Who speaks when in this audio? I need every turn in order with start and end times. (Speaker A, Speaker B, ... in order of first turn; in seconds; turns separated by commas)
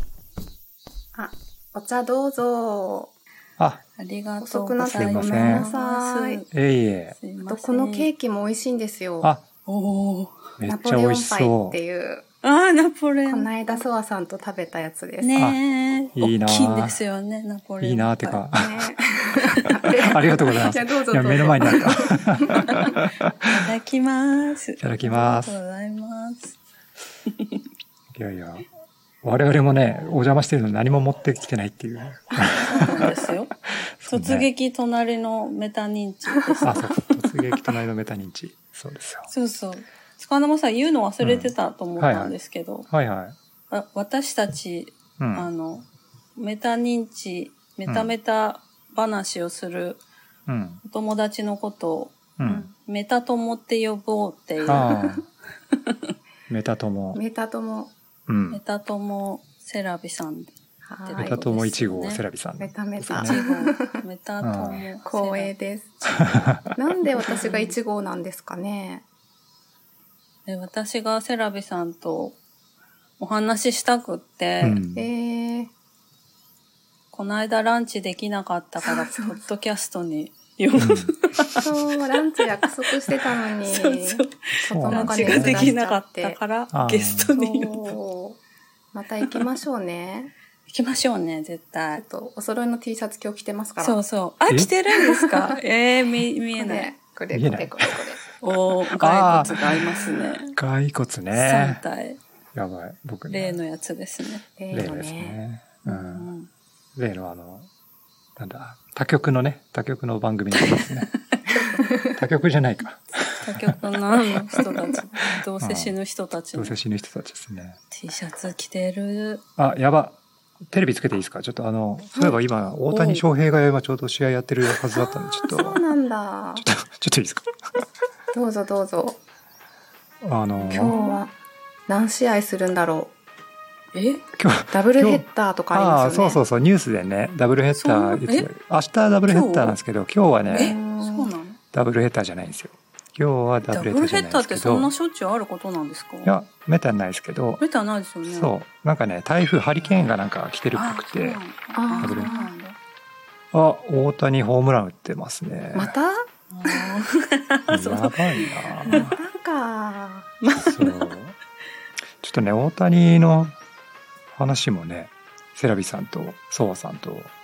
Speaker A: 1.1-3.1, Speaker B: 4.0-6.5, Speaker A: 4.4-6.4, Speaker C: 4.9-5.7, Speaker C: 6.5-7.2, Speaker B: 7.2-8.1, Speaker A: 7.5-9.3, Speaker B: 9.7-10.6, Speaker C: 10.6-11.8, Speaker A: 10.7-12.2, Speaker B: 12.4-13.5, Speaker A: 13.2-15.3, Speaker B: 15.2-18.4, Speaker C: 16.1-17.0, Speaker C: 17.8-18.9, Speaker A: 18.5-22.9, Speaker B: 19.6-19.9, Speaker C: 19.6-23.6, Speaker B: 23.4-26.6, Speaker C: 24.8-25.6, Speaker B: 27.3-27.6, Speaker C: 28.1-28.6, Speaker C: 29.2-33.3, Speaker B: 32.4-37.2, Speaker C: 34.0-34.5, Speaker C: 36.6-39.3, Speaker B: 39.3-42.9, Speaker C: 41.2-42.3, Speaker C: 42.9-43.4, Speaker B: 43.7-50.0, Speaker C: 45.2-45.5, Speaker C: 47.9-48.1, Speaker C: 50.5-50.8, Speaker B: 50.8-55.1, Speaker C: 52.4-52.7, Speaker C: 54.6-55.2, Speaker B: 55.7-56.1, Speaker C: 56.5-57.2, Speaker A: 57.1-57.9, Speaker C: 58.3-58.6, Speaker B: 58.5-60.5, Speaker A: 60.9-61.4, Speaker B: 61.0-62.2, Speaker C: 61.2-63.4, Speaker A: 62.6-64.0, Speaker B: 63.1-65.5, Speaker C: 64.4-64.8, Speaker A: 65.0-69.0, Speaker C: 66.1-66.7, Speaker B: 67.1-67.7, Speaker B: 70.5-72.4, Speaker B: 73.2-74.8, Speaker C: 74.6-75.1, Speaker A: 74.9-75.7, Speaker B: 77.1-81.7, Speaker A: 78.8-79.4, Speaker C: 80.8-81.1, Speaker A: 81.5-86.4, Speaker B: 83.1-88.0, Speaker C: 84.7-85.7, Speaker C: 86.7-87.3, Speaker A: 87.3-88.4, Speaker A: 88.9-90.3, Speaker B: 90.7-92.0, Speaker A: 92.0-94.0, Speaker B: 93.8-96.9, Speaker A: 94.9-95.6, Speaker A: 96.6-98.2, Speaker C: 97.3-98.0, Speaker B: 98.4-100.6, Speaker C: 98.9-99.9, Speaker C: 100.5-101.8, Speaker B: 101.3-102.2, Speaker C: 102.5-103.6, Speaker B: 103.3-104.5, Speaker A: 104.6-105.4, Speaker C: 104.7-106.3, Speaker B: 105.8-106.5, Speaker C: 107.0-107.7, Speaker C: 108.4-111.1, Speaker B: 110.6-111.8, Speaker C: 112.0-113.8, Speaker B: 113.4-116.8, Speaker C: 114.3-114.7, Speaker C: 115.6-115.9, Speaker C: 116.5-117.8, Speaker B: 117.9-119.4, Speaker C: 119.6-125.8, Speaker B: 122.9-123.2, Speaker A: 125.3-126.7, Speaker C: 126.6-127.8, Speaker A: 128.3-129.2, Speaker C: 130.2-131.0, Speaker B: 130.5-131.2, Speaker A: 130.7-131.3, Speaker A: 131.9-133.1, Speaker B: 133.9-134.2, Speaker C: 134.3-140.8, Speaker A: 134.7-136.4, Speaker B: 137.7-138.5, Speaker B: 139.3-139.8, Speaker B: 140.5-141.6, Speaker A: 140.5-141.3, Speaker C: 141.7-144.9, Speaker B: 143.7-146.3, Speaker C: 146.2-147.6, Speaker B: 147.6-148.5, Speaker C: 148.2-151.4, Speaker B: 150.7-152.8, Speaker A: 151.8-152.5, Speaker C: 152.0-152.3, Speaker C: 153.5-155.9, Speaker A: 155.7-157.0, Speaker B: 156.5-159.1, Speaker C: 157.7-159.2, Speaker A: 158.9-160.3, Speaker B: 160.4-161.1, Speaker C: 160.5-161.3, Speaker C: 162.2-163.5, Speaker C: 164.3-167.3